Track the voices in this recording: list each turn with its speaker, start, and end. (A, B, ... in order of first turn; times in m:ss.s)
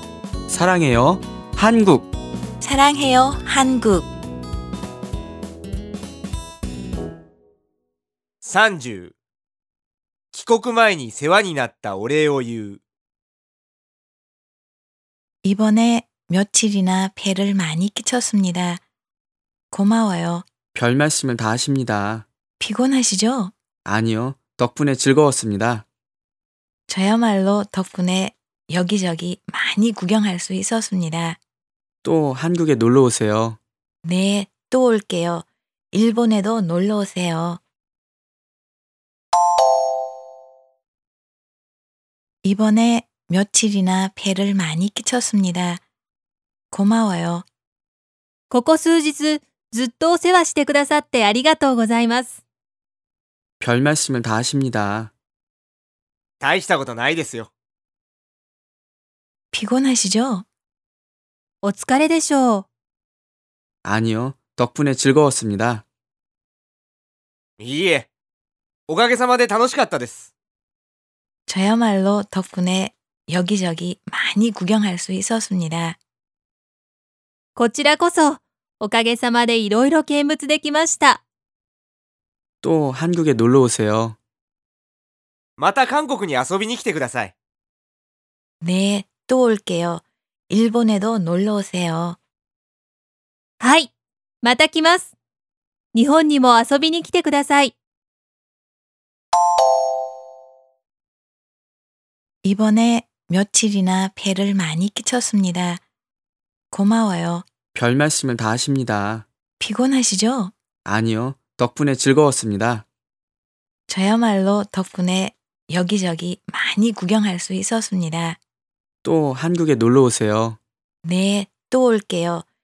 0:00.5-0:02.1 A
0:02.6-0:04.1 B
0:08.4-0:09.1 C
0:10.3-0:12.8 C
0:15.6-0:18.8 B
0:19.7-0:20.4 B
0:20.7-0:22.2 A
0:22.6-0:23.5 B
0:23.8-0:25.8 A
0:26.9-0:31.4 B
0:32.0-0:33.6 A
0:34.2-0:37.6 B
0:42.4-0:45.8 B
0:46.7-0:47.4 B
0:48.5-0:52.4 D
0:53.6-0:55.1 A
0:56.4-0:57.5 C
0:59.6-1:00.4 B
1:01.6-1:02.6 D
1:03.8-1:05.8 A
1:07.6-1:08.1 C
1:08.9-1:10.3 C
1:11.5-1:15.9 B
1:17.6-1:21.2 D
1:22.6-1:24.2 A
1:25.6-1:27.3 C
1:28.6-1:32.2 B
1:33.6-1:33.9 D
1:34.4-1:35.1 D
1:35.9-1:37.7 D
1:42.4-1:45.8 B
1:46.7-1:47.4 B
1:47.7-1:49.2 A
1:49.7-1:50.5 B
1:50.8-1:52.8 A
1:54.0-1:58.4 B
1:59.0-2:00.6 A
2:01.1-2:02.4 B